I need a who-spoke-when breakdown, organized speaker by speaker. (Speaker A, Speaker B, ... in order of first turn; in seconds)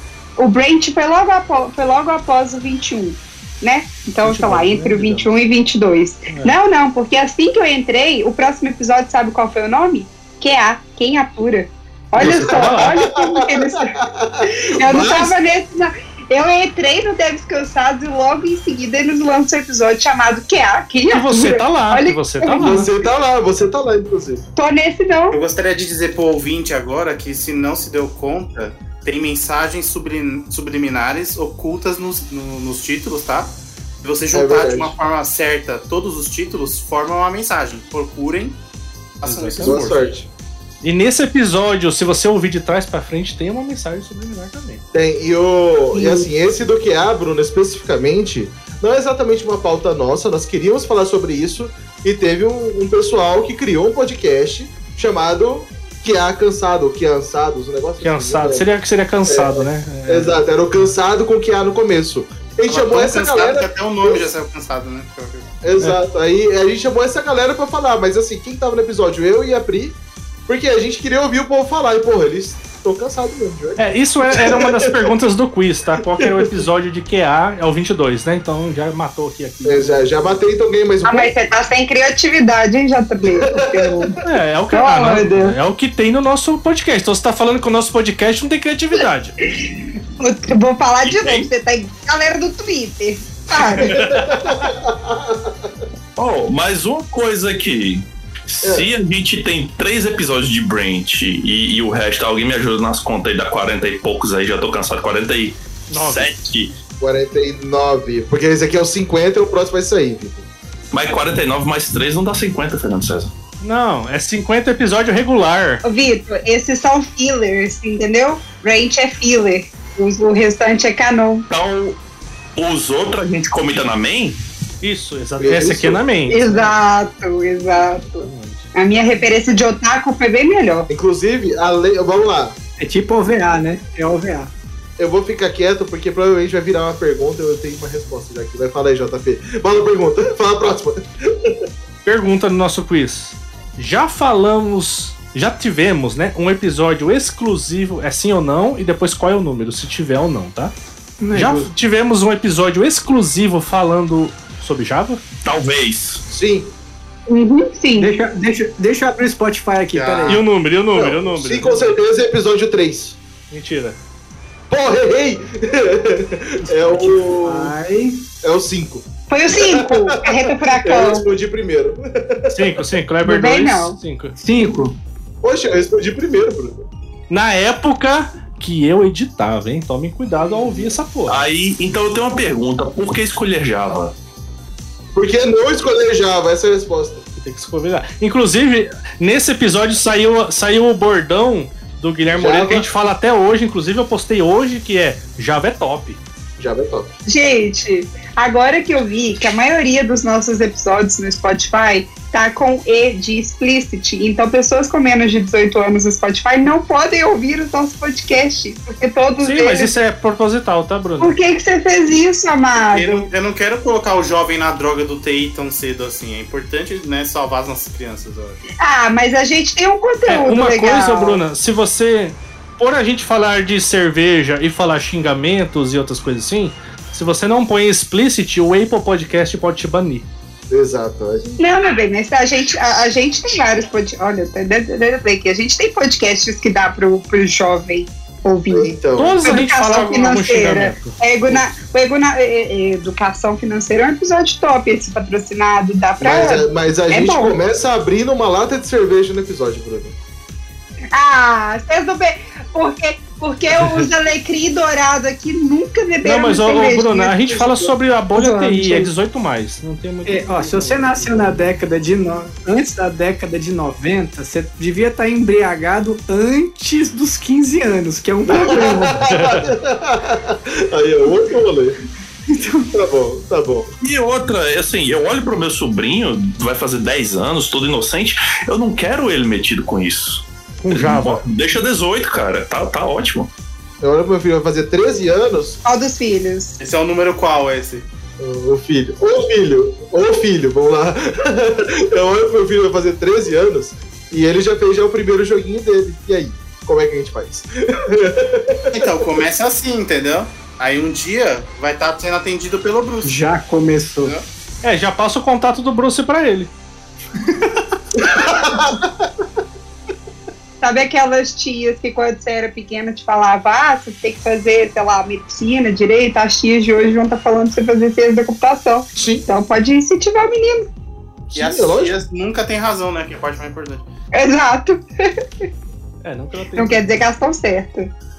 Speaker A: 0.4-13.9, 14.5-22.8, 24.6-25.4, 81.0-85.5, 89.4-94.0, 115.8-121.5, 126.3-130.9, 157.3-158.1, 169.3-171.2, 173.2-174.0, 197.2-209.9, 211.2-213.2, 218.8-221.4, 231.6-247.5, 251.1-259.1, 285.8-286.8, 310.8-320.9, 324.3-325.3, 326.7-328.1
Speaker B: 4.2-5.3, 6.3-6.5, 12.2-13.0, 21.1-22.9, 39.2-40.0, 40.8-44.8, 58.0-60.4, 73.8-80.4, 84.2-89.3, 93.8-94.7, 105.9-106.3, 113.6-115.8, 124.8-126.7, 128.2-128.7, 142.0-150.7, 151.3-155.2, 160.3-161.9, 163.5-164.0, 166.6-167.2, 172.5-174.3, 177.3-181.4, 187.4-196.2, 209.4-211.3, 220.3-230.3, 239.1-241.7, 253.7-254.1, 256.2-261.6, 269.2-269.7, 280.8-281.4, 304.8-306.7, 326.2-327.2
Speaker C: 12.2-15.3, 22.6-24.4, 34.3-34.9, 39.6-40.3, 44.9-58.6, 59.3-64.2, 65.6-75.1, 76.1-76.7, 79.6-81.3, 83.3-84.1, 93.8-95.7, 107.0-110.5, 125.4-126.0, 130.9-132.6, 135.0-141.6, 156.3-156.7, 160.9-163.2, 164.7-167.7, 168.4-172.8, 175.4-176.8, 180.4-180.9, 185.1-187.2, 192.3-192.8, 196.6-197.1, 230.7-231.6, 238.7-239.5, 246.2-250.1, 268.5-272.0, 272.9-273.9, 284.0-285.8, 288.4-298.9, 308.3-309.0, 319.1-319.5, 321.5-322.2
Speaker D: 25.3-38.6, 39.2-40.1, 62.7-65.5, 159.9-160.4, 212.9-218.6, 286.8-288.1, 298.9-303.4, 321.5-324.1
Speaker E: 91.0-91.5, 96.2-106.8, 110.9-113.3, 121.5-122.0, 122.5-124.4, 155.4-156.2, 181.3-184.1, 274.0-283.5
Speaker F: 132.8-134.5, 151.2-151.7, 158.0-160.4, 167.4-168.2, 174.4-174.9, 260.2-269.2, 272.5-272.9, 303.2-304.3